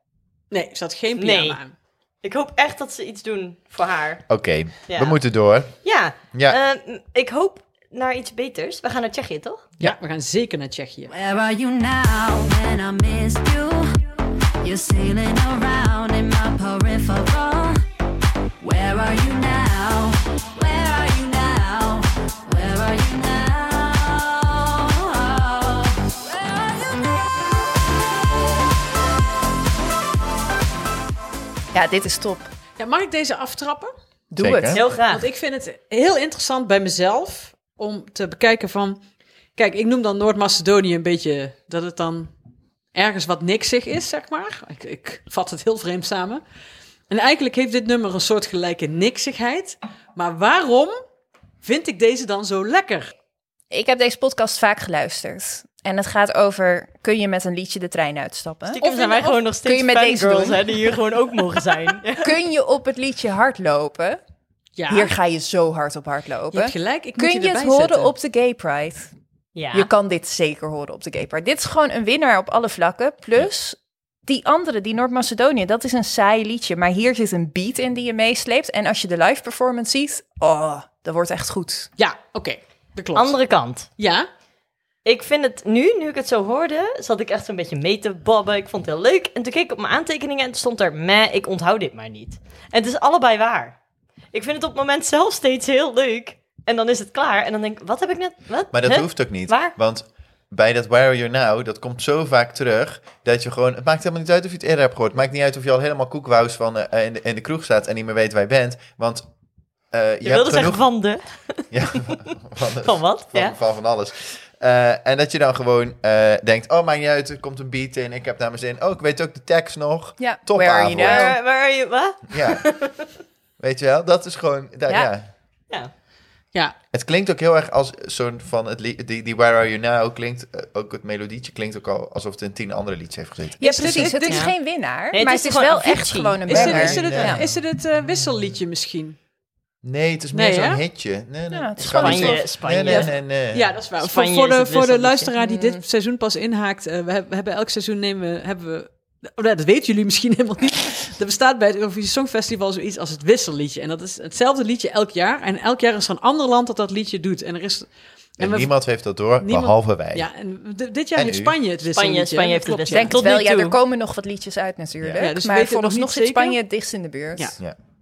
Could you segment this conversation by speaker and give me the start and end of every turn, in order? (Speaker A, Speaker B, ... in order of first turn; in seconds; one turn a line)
Speaker A: 0.5-1.8
Speaker B: 1.2-1.6
Speaker B: 2.2-4.3
Speaker C: 4.3-6.6
Speaker B: 4.8-9.7
Speaker A: 9.8-11.1
Speaker D: 11.1-14.0
Speaker D: 14.6-17.8
Speaker D: 18.6-27.0
Speaker E: 31.7-32.5
Speaker A: 32.8-33.9
Speaker E: 34.3-34.8
Speaker C: 34.4-34.8
Speaker B: 34.7-35.3
Speaker A: 34.9-39.0
Speaker A: 39.5-42.3
Speaker A: 42.9-46.4
Speaker A: 47.1-51.0
Speaker A: 51.6-53.1
Speaker E: 53.7-60.9
Speaker B: 58.7-62.3
Speaker E: 62.1-64.2
Speaker A: 64.8-65.2
Speaker E: 64.9-69.1
Speaker A: 66.5-68.1
Speaker B: 69.5-69.9
Speaker E: 69.7-81.9
Speaker A: 82.0-83.4
Speaker B: 83.1-83.9
Speaker A: 84.0-84.3
Speaker B: 85.0-93.8
Speaker B: 94.3-99.8
Speaker C: 98.7-109.3
Speaker C: 109.9-110.8
Speaker B: 110.2-112.3
Speaker C: 111.7-121.4
Speaker B: 112.8-113.6
Speaker E: 120.2-121.4
Speaker B: 121.0-123.0
Speaker C: 122.3-122.7
Speaker C: 123.6-125.3
Speaker C: 126.9-134.2
Speaker E: 133.6-137.4
Speaker A: 133.6-134.5
Speaker B: 134.3-134.6
Speaker B: 135.1-136.4
Speaker A: 136.5-139.2
Speaker C: 136.5-137.6
Speaker C: 139.8-143.7
Speaker A: 140.3-140.8
Speaker E: 141.5-142.5
Speaker B: 141.8-143.1
Speaker A: 142.7-163.3
Speaker B: 144.0-145.3
Speaker E: 145.4-145.8
Speaker C: 158.4-160.3
Speaker C: 161.2-161.6
Speaker B: 161.9-163.8
Speaker E: 162.9-167.5
Speaker A: 165.2-166.6